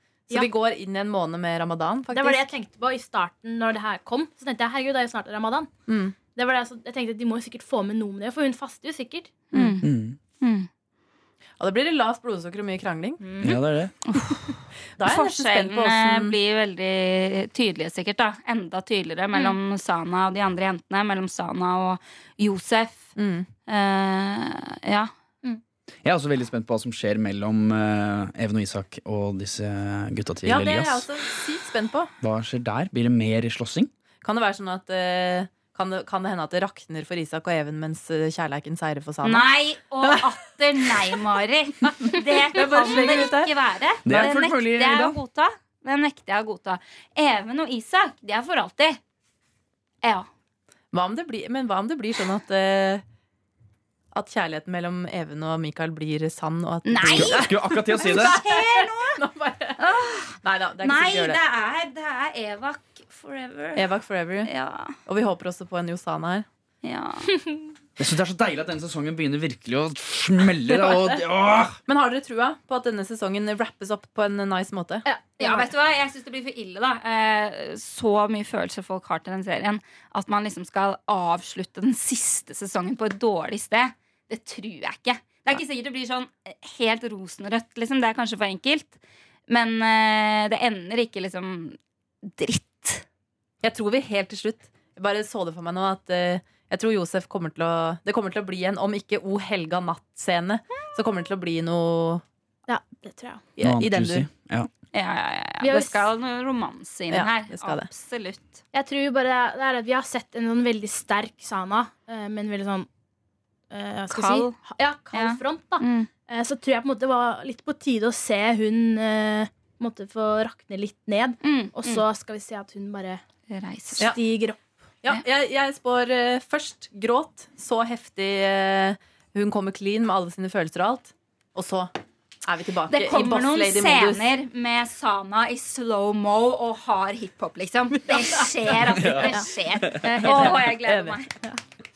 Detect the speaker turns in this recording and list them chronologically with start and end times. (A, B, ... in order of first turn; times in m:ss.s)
0:00.3-0:02.5 A
0:02.1-0:05.7 B
0:05.9-0:06.2 A
0:06.4-0:09.4 B
0:09.5-0:09.8 A
0:09.5-0:09.9 C
0:09.8-0:10.2 D
0:10.4-0:10.7 C
0:11.6-0:13.2 A
0:13.2-0:23.1 C
0:13.4-0:13.9 D
0:15.0-0:16.4 A
0:23.2-0:23.5 A
0:23.7-0:25.1 C
0:26.0-0:31.1 D
0:30.4-0:32.1 A
0:32.2-0:33.9 D
0:34.2-0:39.5 A
0:39.2-0:49.0 C
0:42.5-0:43.5 A
0:44.0-0:45.2 D
0:50.0-0:50.3 C
0:50.9-0:53.0 A
0:54.1-0:59.8 A
0:56.9-0:59.2 C
0:57.1-0:58.4 D
0:59.8-1:03.9 C
1:00.4-1:01.4 A
1:03.8-1:04.5 A
1:04.4-1:05.0 C
1:05.0-1:06.5 A
1:06.8-1:07.3 C
1:07.3-1:07.6 B
1:08.0-1:11.8 D
1:10.7-1:11.2 A
1:11.9-1:15.0 A
1:15.0-1:15.7 B
1:15.4-1:33.0 C
1:33.6-1:42.2 A
1:42.7-1:43.4 B
1:43.6-1:44.3 A
1:43.6-1:44.7 D
1:44.9-1:48.6 C
1:45.6-1:46.1 B
1:47.1-1:47.9 A
1:48.7-1:52.9 B
1:53.7-2:03.2 B
1:54.1-1:54.6 C
1:55.1-1:56.1 C
2:01.4-2:02.0 C
2:03.5-2:04.1 C
2:04.0-2:04.6 B
2:05.0-2:11.9 A
2:12.4-2:14.3 A
2:12.9-2:21.3 C
2:18.1-2:18.4 A
2:19.0-2:19.3 D
2:19.2-2:19.5 B
2:20.0-2:20.6 B
2:20.2-2:21.2 A